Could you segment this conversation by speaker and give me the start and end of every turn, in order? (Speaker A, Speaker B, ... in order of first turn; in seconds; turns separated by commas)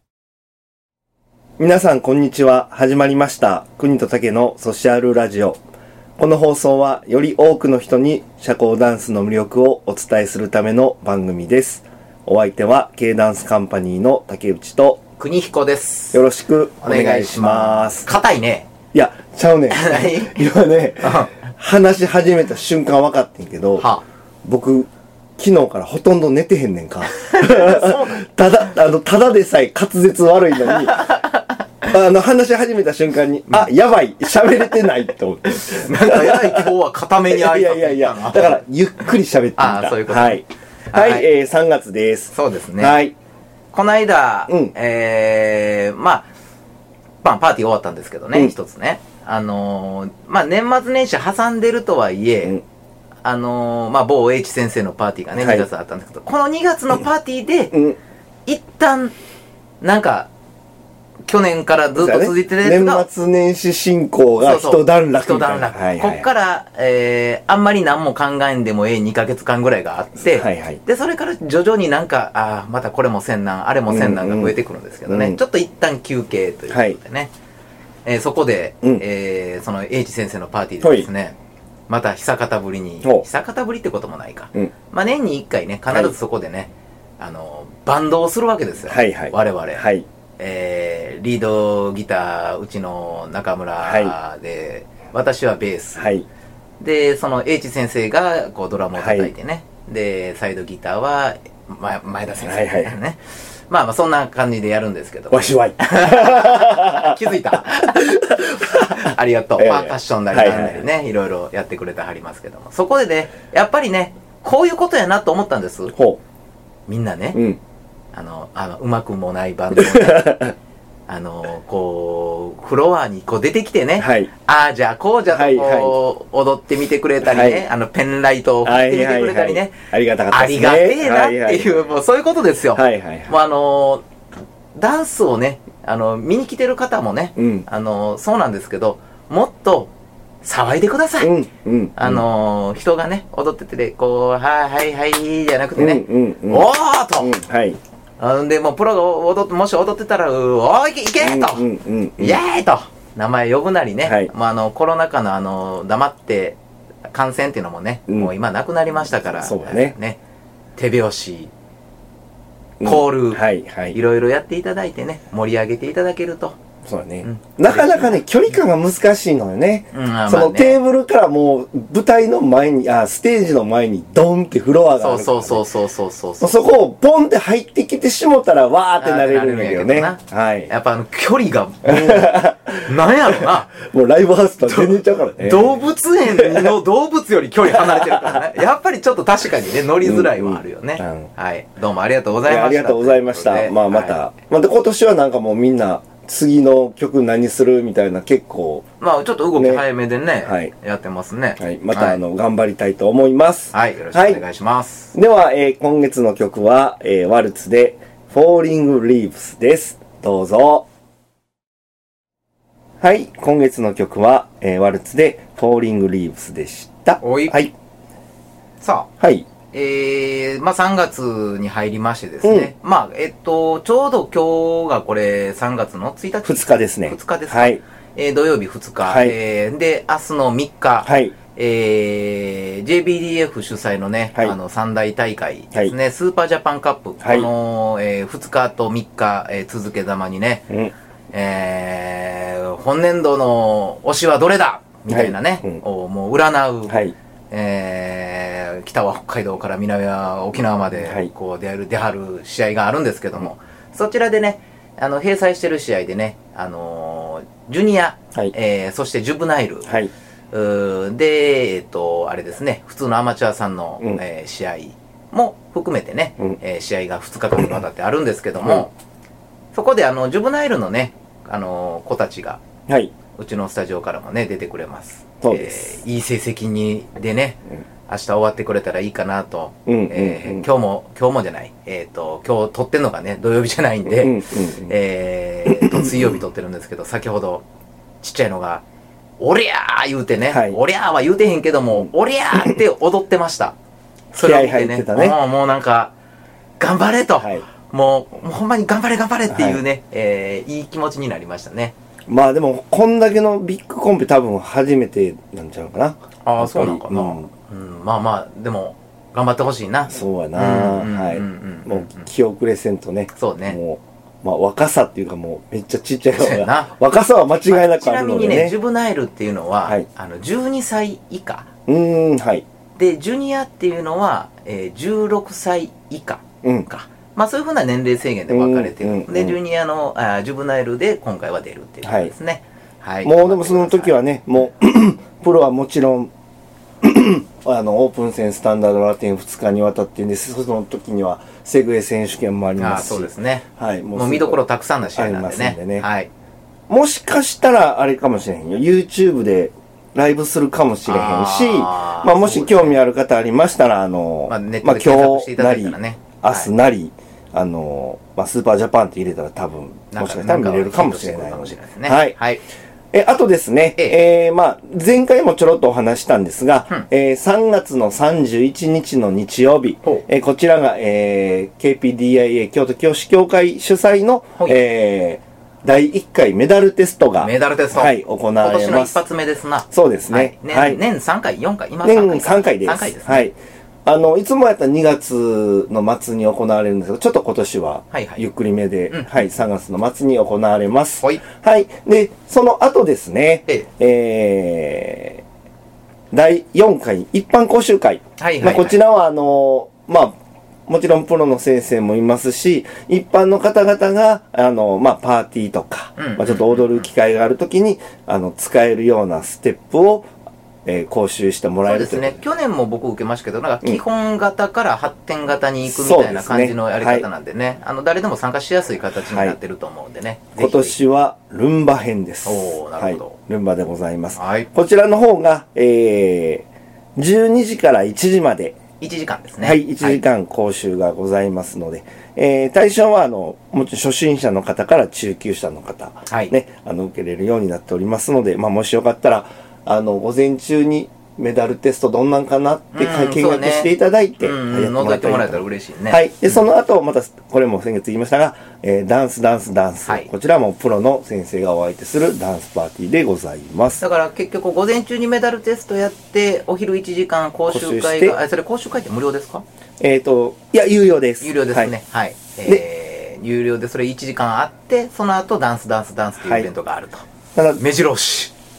Speaker A: 1.6-5.6, Speaker A: 6.2-15.0, Speaker B: 15.2-16.2, Speaker A: 16.1-18.1, Speaker B: 16.8-18.7, Speaker A: 18.9-23.9, Speaker B: 19.7-20.4, Speaker B: 21.0-21.4, Speaker B: 23.8-24.0, Speaker A: 24.4-31.2, Speaker B: 27.1-28.3, Speaker B: 30.6-31.4, Speaker A: 31.8-36.7, Speaker B: 35.5-38.6, Speaker A: 37.3-43.1, Speaker B: 39.6-41.2, Speaker B: 42.3-43.0, Speaker B: 43.7-46.3, Speaker B: 47.2-52.6, Speaker B: 53.2-57.7, Speaker A: 55.4-55.7, Speaker B: 58.5-59.1, Speaker B: 59.8-60.3, Speaker B: 61.3-63.0, Speaker A: 62.0-66.3, Speaker B: 64.4-77.3, Speaker A: 70.3-70.8, Speaker A: 73.9-75.4, Speaker A: 76.7-77.0, Speaker B: 78.0-81.3, Speaker A: 80.8-81.1, Speaker B: 81.9-89.9, Speaker A: 88.9-90.0, Speaker B: 90.4-96.1, Speaker A: 93.8-94.1, Speaker A: 96.0-96.3, Speaker B: 96.8-115.9, Speaker A: 98.9-99.3, Speaker A: 102.4-102.9, Speaker A: 105.3-110.8, Speaker A: 115.9-116.2, Speaker B: 116.9-117.4, Speaker A: 117.3-117.6, Speaker B: 118.1-120.5, Speaker A: 119.7-120.5, Speaker B: 121.1-129.8, Speaker A: 124.0-124.3, Speaker A: 125.3-126.0, Speaker A: 127.2-127.6, Speaker A: 128.6-131.8, Speaker B: 130.3-134.0, Speaker A: 132.7-133.3, Speaker B: 134.7-139.9, Speaker A: 137.3-137.6, Speaker B: 140.4-141.3, Speaker A: 141.2-142.2, Speaker B: 142.0-147.3, Speaker A: 145.8-147.8, Speaker B: 148.2-151.7, Speaker A: 151.2-152.4, Speaker B: 152.2-156.6, Speaker A: 154.0-154.3, Speaker B: 157.1-160.2, Speaker A: 159.3-159.9, Speaker B: 160.8-161.5, Speaker A: 162.8-164.0, Speaker B: 162.8-166.6, Speaker A: 166.8-175.7, Speaker B: 167.2-168.2, Speaker B: 169.9-170.8, Speaker B: 175.0-176.7, Speaker A: 176.4-180.7, Speaker B: 179.0-183.7, Speaker A: 181.8-186.8, Speaker B: 184.6-194.2, Speaker A: 187.7-188.4, Speaker A: 190.0-191.3, Speaker A: 192.4-198.8, Speaker B: 199.0-202.2, Speaker A: 199.6-199.8, Speaker A: 200.4-200.7, Speaker A: 201.6-204.4, Speaker B: 203.7-205.1, Speaker A: 205.1-210.8, Speaker A: 213.0-217.7, Speaker B: 217.2-217.6, Speaker B: 218.8-219.1, Speaker A: 219.2-219.5, Speaker B: 219.7-240.7, Speaker A: 222.4-222.7, Speaker A: 226.4-227.8, Speaker A: 229.0-229.4, Speaker A: 231.0-231.3, Speaker A: 237.2-237.5, Speaker B: 241.3-259.9, Speaker A: 245.1-245.8, Speaker A: 246.9-247.1, Speaker A: 259.9-260.1, Speaker B: 260.5-268.9, Speaker B: 269.7-272.6, Speaker A: 272.9-273.1, Speaker B: 273.4-287.6, Speaker A: 275.4-276.0, Speaker A: 279.9-280.7, Speaker A: 284.1-284.9, Speaker A: 285.6-286.4, Speaker B: 288.2-288.8, Speaker B: 289.4-293.7, Speaker A: 290.5-290.8, Speaker A: 294.3-295.4, Speaker B: 294.3-296.1, Speaker B: 296.8-301.9, Speaker A: 299.5-299.8, Speaker A: 302.3-307.5, Speaker B: 306.4-312.3, Speaker A: 310.1-318.8, Speaker B: 313.3-313.8, Speaker B: 316.3-316.9, Speaker B: 317.6-321.7, Speaker A: 321.9-322.6, Speaker B: 322.9-334.1, Speaker A: 326.6-326.9, Speaker A: 328.5-329.6, Speaker A: 332.0-332.3, Speaker A: 333.2-336.3, Speaker A: 337.0-344.6, Speaker B: 342.8-343.6, Speaker B: 344.1-346.3, Speaker A: 345.1-346.1, Speaker A: 346.9-362.3, Speaker B: 351.1-353.0, Speaker B: 354.5-356.7, Speaker B: 360.1-362.6, Speaker A: 363.1-379.2, Speaker B: 377.4-383.5, Speaker A: 379.9-381.0, Speaker A: 382.0-395.4, Speaker B: 388.1-388.4, Speaker A: 396.3-400.3, Speaker B: 398.4-399.0, Speaker A: 400.9-410.3, Speaker B: 406.2-407.1, Speaker A: 410.8-412.4, Speaker B: 411.9-420.9, Speaker A: 415.8-417.2, Speaker A: 419.1-419.6, Speaker A: 420.6-428.8, Speaker B: 422.4-423.4, Speaker B: 424.4-424.7, Speaker B: 429.0-430.2, Speaker A: 429.6-454.0, Speaker B: 436.3-436.5, Speaker B: 442.9-446.2, Speaker B: 454.0-459.6, Speaker A: 457.7-458.4, Speaker A: 460.0-461.9, Speaker B: 461.4-467.2, Speaker A: 466.4-466.7, Speaker A: 467.5-467.8, Speaker B: 467.8-468.5